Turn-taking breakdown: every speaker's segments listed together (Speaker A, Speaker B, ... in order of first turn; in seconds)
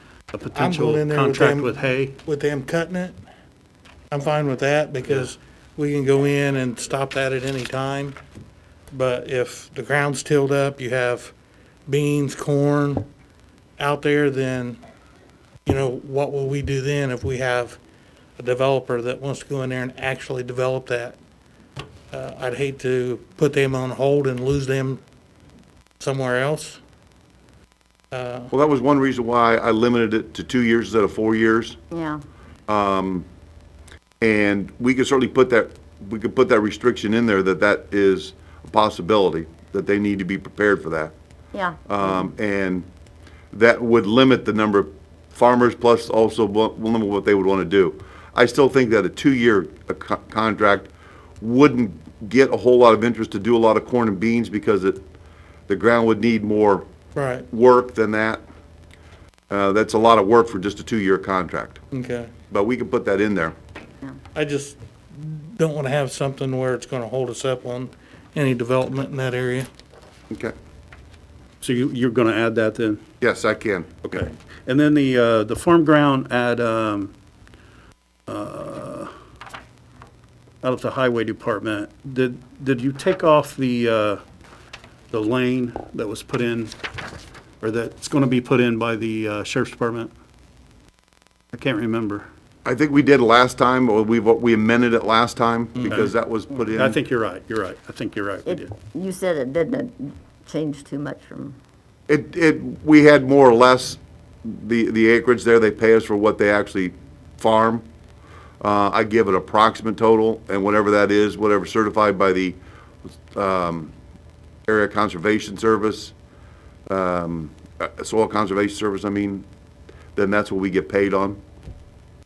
Speaker A: 0.3-2.2, 71.6-73.0, 74.0-77.1, 78.3-79.1, 80.6-84.2, 85.1-86.7, 87.6-90.1, 91.5-92.3, 96.8-98.7
Speaker B: 0.5-3.1, 4.1-8.2, 8.9-11.3, 11.9-13.1, 13.8-14.8, 15.7-17.8, 18.4-21.2, 22.1-25.0, 26.0-26.8, 28.1-28.5, 57.1-57.5, 61.9-62.3, 64.3-69.7
Speaker C: 28.5-31.8, 32.7-33.2, 34.2-41.1, 41.9-42.9, 43.5-50.9, 51.4-55.0, 55.7-56.9, 57.5-58.4, 59.5-61.8, 62.5-63.5, 73.2-73.9, 92.6-97.0, 102.1-107.8, 108.6-112.6, 113.3-113.9, 114.7-116.1, 116.9-119.5, 120.1-121.4
Speaker D: 31.9-32.2, 41.5-41.8, 98.5-101.6